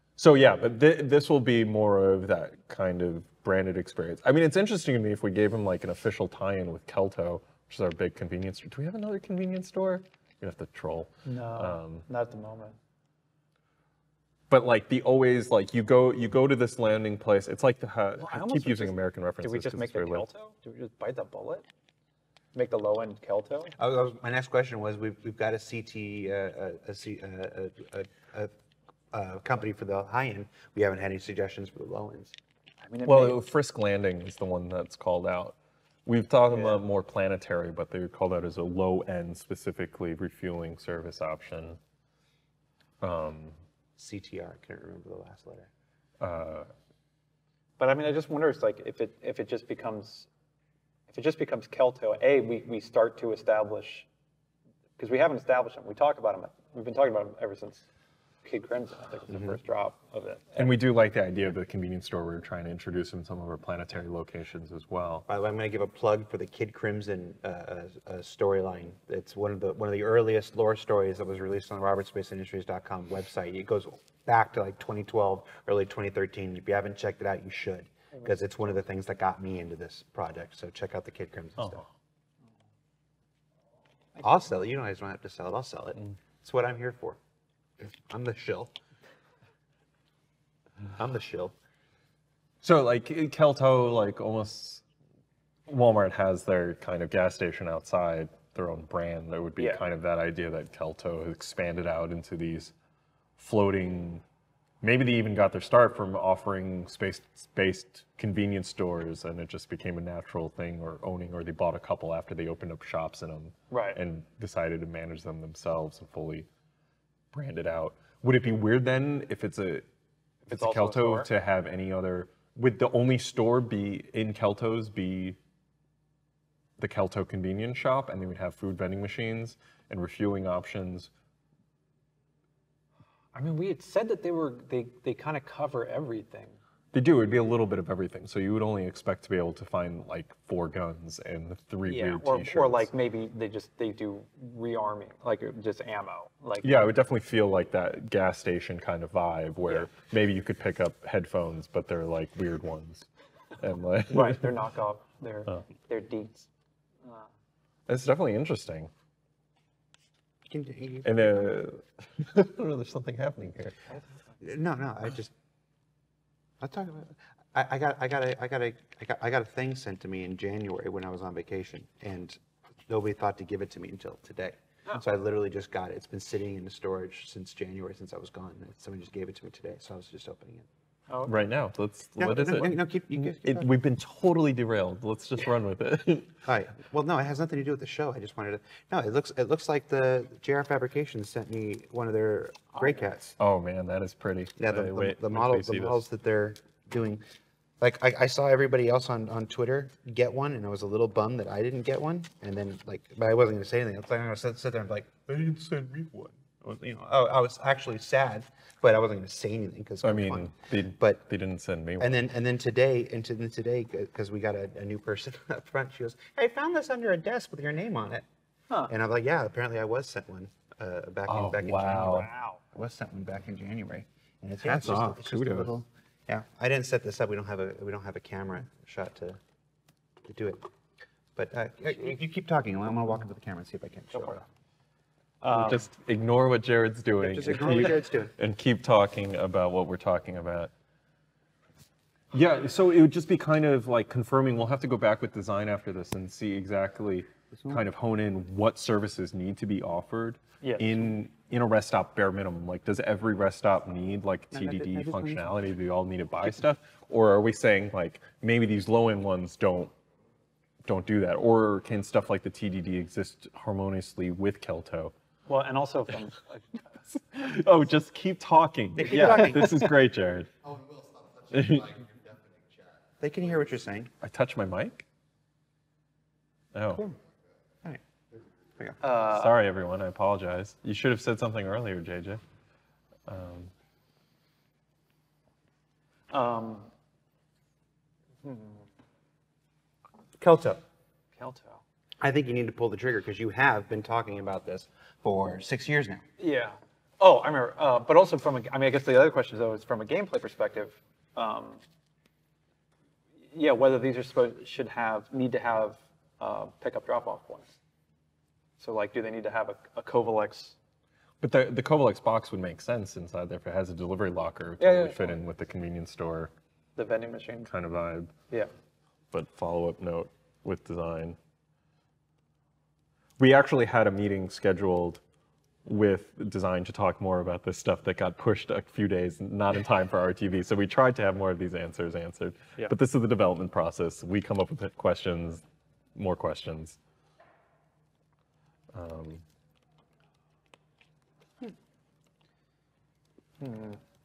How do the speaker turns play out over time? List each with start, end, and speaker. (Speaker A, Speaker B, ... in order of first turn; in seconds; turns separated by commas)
Speaker A: 0.2-12.1, Speaker B: 11.2-12.8, Speaker A: 14.5-20.2, Speaker B: 18.2-21.6, Speaker B: 22.5-23.7, Speaker C: 23.8-28.5, Speaker C: 29.1-32.3, Speaker B: 32.8-33.4, Speaker A: 33.0-41.8, Speaker B: 36.5-36.8, Speaker A: 43.0-43.5, Speaker C: 44.0-45.7, Speaker A: 46.2-46.7, Speaker B: 47.8-50.3, Speaker B: 51.1-54.1, Speaker B: 55.0-57.9, Speaker B: 58.4-60.7, Speaker C: 59.3-59.6, Speaker A: 60.6-65.2, Speaker C: 65.3-81.8, Speaker A: 81.6-81.9, Speaker C: 84.2-87.2, Speaker C: 87.8-88.7, Speaker C: 91.0-91.5, Speaker A: 92.6-94.8, Speaker A: 95.7-102.7, Speaker B: 99.6-99.8, Speaker A: 103.4-104.2, Speaker A: 104.8-116.5, Speaker B: 113.7-114.0, Speaker A: 117.3-119.8, Speaker B: 120.5-121.3, Speaker A: 120.5-125.4, Speaker A: 126.8-131.1, Speaker B: 133.3-136.6, Speaker A: 136.9-142.9, Speaker B: 141.9-146.9, Speaker A: 146.6-153.1, Speaker A: 153.6-154.6, Speaker B: 154.1-156.5, Speaker A: 157.9-158.9, Speaker C: 160.5-161.5, Speaker A: 161.0-163.8, Speaker B: 163.9-164.3, Speaker C: 164.4-165.3, Speaker C: 166.6-180.7, Speaker A: 181.2-186.3, Speaker C: 182.2-183.7, Speaker C: 186.4-193.4, Speaker A: 193.4-196.0, Speaker C: 194.6-197.2, Speaker C: 197.8-211.2, Speaker A: 210.0-212.2, Speaker C: 212.0-218.2, Speaker C: 218.9-229.4, Speaker A: 221.3-222.3, Speaker B: 222.1-222.6, Speaker A: 224.6-225.8, Speaker C: 230.2-230.7, Speaker C: 231.3-234.4, Speaker B: 234.1-234.4, Speaker B: 235.4-235.8, Speaker A: 235.5-240.7, Speaker C: 237.2-238.3, Speaker A: 242.3-259.9, Speaker C: 247.6-247.8, Speaker B: 250.6-251.0, Speaker C: 254.5-255.5, Speaker A: 260.8-265.1, Speaker B: 265.5-266.6, Speaker A: 267.1-270.5, Speaker C: 269.0-269.9, Speaker A: 271.5-272.1, Speaker C: 273.2-274.1, Speaker A: 274.2-275.0, Speaker A: 276.7-277.1, Speaker B: 279.0-279.5, Speaker A: 279.2-282.4, Speaker A: 283.3-283.7, Speaker B: 286.3-286.9, Speaker B: 288.4-288.9, Speaker C: 290.4-290.8, Speaker B: 291.4-291.8, Speaker C: 292.2-296.2, Speaker B: 296.4-301.8, Speaker B: 303.5-307.7, Speaker B: 308.8-310.8, Speaker A: 311.4-316.5, Speaker B: 314.8-315.3, Speaker B: 317.0-317.7, Speaker A: 317.6-318.3, Speaker A: 319.3-321.4, Speaker A: 323.4-325.2, Speaker A: 325.8-335.6, Speaker A: 336.1-337.0, Speaker A: 338.9-339.4, Speaker B: 343.6-344.0